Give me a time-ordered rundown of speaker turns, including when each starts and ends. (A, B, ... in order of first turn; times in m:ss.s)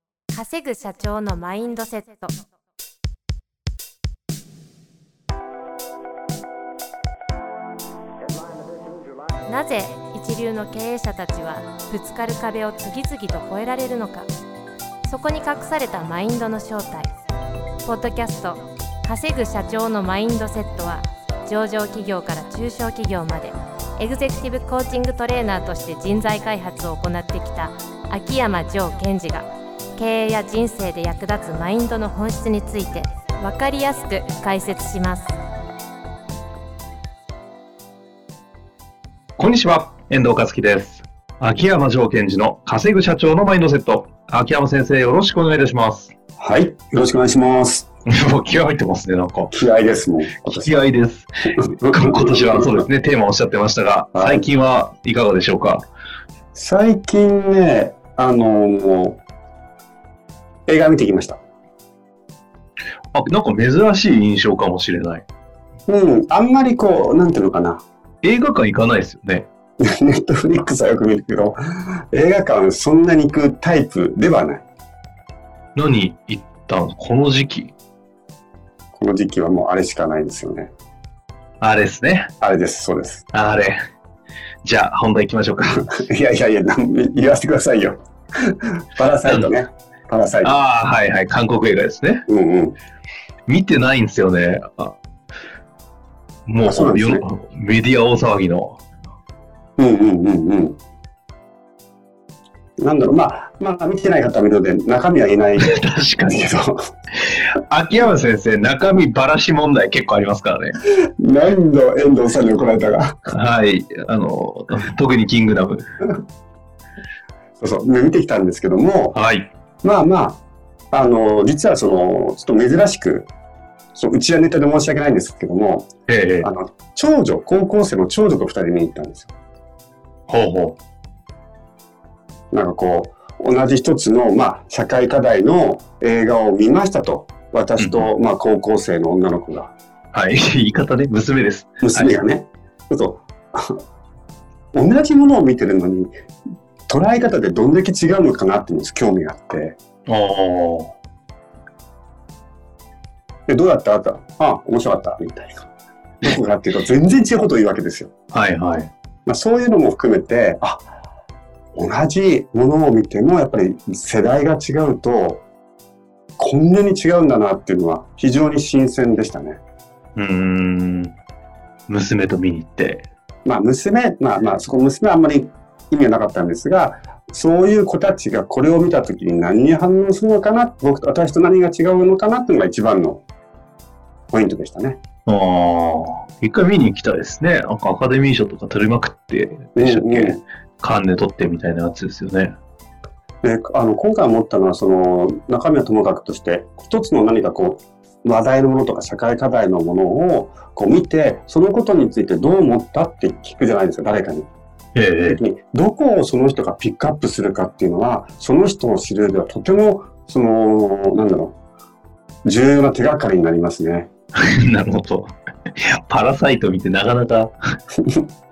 0:00.3-0:02.3 A
0:09.5-0:14.3 A
0:15.0-0:17.1 A
0:17.8-0:35.4 A
0:39.4-0:46.1 B
0:46.4-0:47.9 C
0:48.1-0:49.5 B
0:49.5-0:50.7 C
0:50.4-0:55.9 B
0:51.7-0:52.8 C
0:54.2-0:54.4 C
0:56.6-0:59.2 C
1:00.7-1:01.4 C
1:03.1-1:05.2 B
1:05.9-1:07.8 C
1:08.2-1:09.5 B
1:09.8-1:14.6 C
1:15.8-1:17.7 B
1:19.0-1:20.7 C
1:21.6-1:22.3 B
1:22.4-1:23.2 C
1:23.3-1:23.8 B
1:24.6-1:25.9 B
1:25.7-1:30.6 C
1:30.4-1:32.2 B
1:32.3-1:32.8 C
1:33.5-1:35.0 B
1:36.5-1:38.8 B
1:36.6-1:37.2 C
1:39.8-1:40.8 C
1:42.8-1:46.9 C
1:45.6-1:46.5 B
1:47.3-1:50.8 B
1:51.2-1:53.2 C
1:53.3-1:55.9 B
1:57.6-1:59.2 C
1:59.1-1:59.5 B
1:59.8-2:00.4 C
2:00.9-2:03.3 C
2:04.0-2:05.9 C
2:06.1-2:06.5 B
2:06.4-2:09.3 C
2:10.3-2:10.8 B
2:12.5-2:19.7 C
2:17.8-2:18.1 B
2:20.1-2:22.1 B
2:21.8-2:23.8 C
2:24.7-2:26.1 C
2:26.9-2:29.8 C
2:30.1-2:30.9 B
2:33.5-2:35.7 C
2:36.2-2:38.1 C
2:38.3-2:38.9 B
2:39.3-2:40.8 C
2:41.8-2:45.4 C
2:46.4-2:49.6 C
2:50.2-2:51.2 B
2:51.9-2:53.1 B
2:53.4-3:03.2 C
3:04.3-3:05.0 C
3:05.3-3:12.6 B
3:09.8-3:10.4 C
3:13.4-3:24.5 C
3:25.0-3:25.4 B
3:25.3-3:31.6 C
3:32.4-3:34.1 C
3:34.4-3:37.5 B